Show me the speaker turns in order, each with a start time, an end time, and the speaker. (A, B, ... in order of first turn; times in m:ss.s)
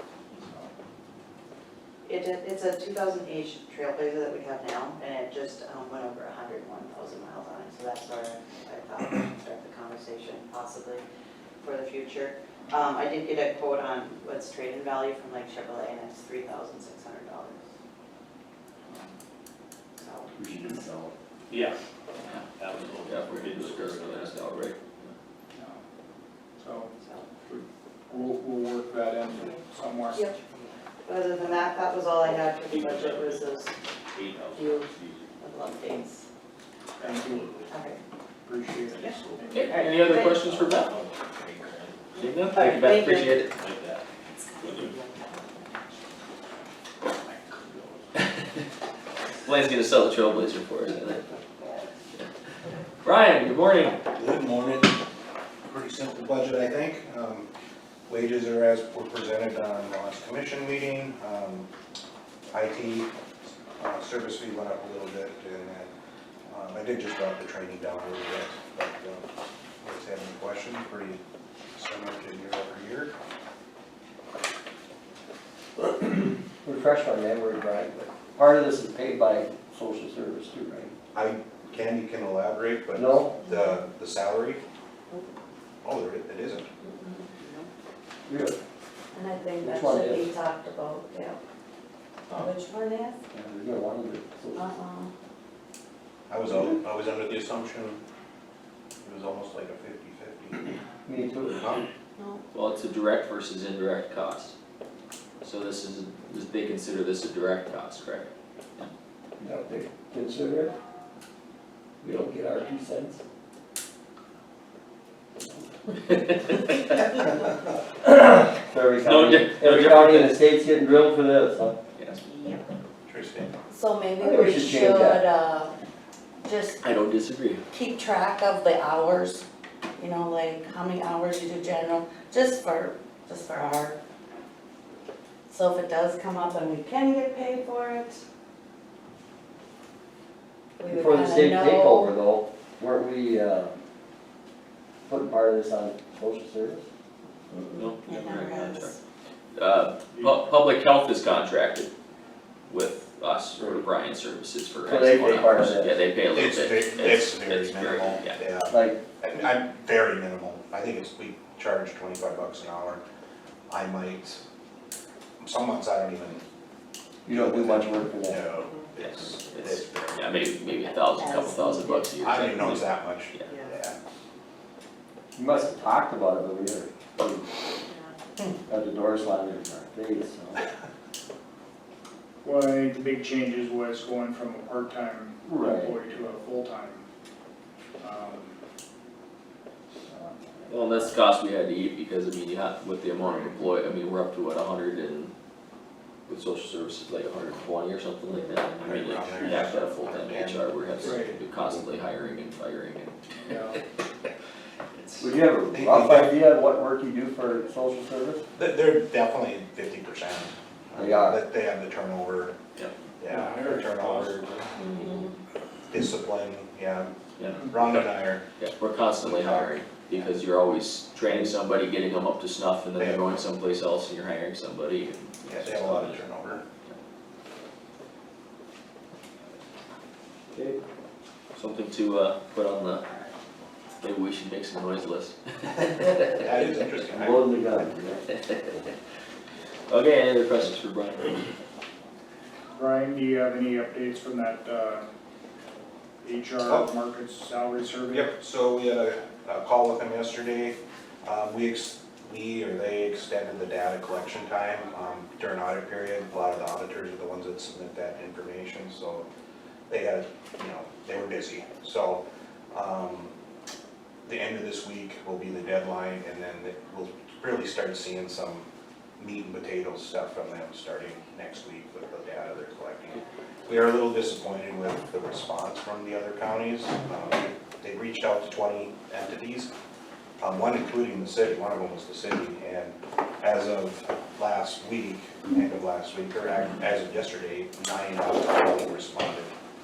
0:00.3-0:00.7 A
0:02.0-0:11.1 B
0:11.6-0:17.6 B
0:18.9-0:19.2 A
0:20.0-0:20.6 B
0:20.4-0:21.1 C
0:21.5-0:21.8 D
0:22.6-0:24.4 D
0:23.0-0:25.1 E
0:25.5-0:25.8 A
0:26.6-0:26.9 A
0:27.0-0:27.3 B
0:28.1-0:30.3 A
0:30.1-0:33.8 B
0:32.3-0:33.5 D
0:34.1-0:35.3 D
0:34.5-0:34.9 B
0:35.4-0:36.3 B
0:37.0-0:37.7 D
0:37.0-0:37.5 A
0:37.7-0:38.0 B
0:38.4-0:39.5 A
0:38.9-0:42.2 D
0:39.0-0:40.2 B
0:39.5-0:41.0 E
0:42.2-0:43.4 B
0:42.2-0:43.5 E
0:43.5-0:44.9 D
0:44.4-0:45.7 B
0:47.3-0:48.0 D
0:49.4-0:51.2 E
0:53.0-0:54.0 E
0:54.1-0:54.9 F
0:55.7-0:57.5 F
0:58.1-1:01.7 F
1:02.5-1:03.1 F
1:03.8-1:05.9 F
1:06.5-1:09.3 F
1:09.8-1:11.2 F
1:11.7-1:13.1 F
1:15.8-1:20.9 C
1:21.1-1:24.6 F
1:23.0-1:23.3 C
1:23.5-1:23.8 G
1:25.8-1:26.7 F
1:26.8-1:27.6 G
1:28.3-1:28.6 C
1:29.1-1:31.4 G
1:29.6-1:30.3 C
1:32.3-1:33.2 G
1:33.3-1:34.6 C
1:34.6-1:35.1 G
1:36.3-1:38.0 F
1:39.0-1:40.7 F
1:41.1-1:41.6 C
1:41.5-1:41.9 F
1:42.2-1:42.4 G
1:42.5-1:44.5 E
1:45.4-1:48.9 E
1:49.4-1:50.7 C
1:52.0-1:53.2 C
1:58.0-2:01.8 C
1:59.0-2:00.4 E
2:02.0-2:02.2 E
2:02.2-2:02.6 G
2:03.1-2:03.5 F
2:03.7-2:05.8 G
2:04.2-2:05.2 C
2:06.4-2:06.8 G
2:06.8-2:07.6 E
2:07.7-2:09.4 G
2:10.0-2:14.0 G
2:15.5-2:18.2 G
2:20.8-2:22.2 G
2:20.9-2:23.8 C
2:25.0-2:26.8 C
2:27.6-2:29.0 G
2:27.8-2:29.0 E
2:29.6-2:31.9 E
2:30.1-2:30.4 A
2:32.7-2:38.4 E
2:34.8-2:36.0 C
2:36.3-2:43.0 F
2:38.7-2:39.0 C
2:43.7-2:44.4 F
2:45.4-2:46.4 F
2:47.2-2:48.4 C
2:47.3-2:50.3 F
2:49.0-2:53.5 E
2:50.9-2:52.2 G
2:52.2-2:54.0 F
2:53.5-2:53.8 B
2:55.4-2:57.5 C
2:57.9-2:58.2 B
2:58.7-3:00.6 C
3:02.4-3:07.1 A
3:05.5-3:06.0 C
3:08.0-3:08.6 A
3:10.0-3:11.1 A
3:10.7-3:15.3 E
3:16.3-3:23.5 E
3:18.3-3:18.9 G
3:18.8-3:20.7 F
3:21.0-3:21.4 A
3:23.4-3:23.8 A
3:25.0-3:25.2 E
3:25.2-3:28.4 C
3:25.7-3:26.4 F
3:28.6-3:32.6 F
3:31.0-3:31.4 C
3:33.2-3:34.6 F
3:33.3-3:34.8 A
3:34.8-3:35.3 G
3:35.9-3:38.4 F
3:37.4-3:46.2 E
3:39.2-3:40.2 F
3:41.3-3:41.5 C
3:43.0-3:43.3 F
3:45.5-3:46.6 F
3:50.5-3:50.8 C
3:51.5-3:53.1 E
3:54.0-3:56.8 E
3:56.3-3:57.6 F
3:57.2-3:58.2 C
3:58.3-3:58.9 E
3:59.9-4:01.5 E
4:02.7-4:05.1 A
4:06.2-4:08.3 A
4:08.1-4:19.3 F
4:19.9-4:23.3 F
4:24.2-4:39.7 F
4:40.4-4:49.5 F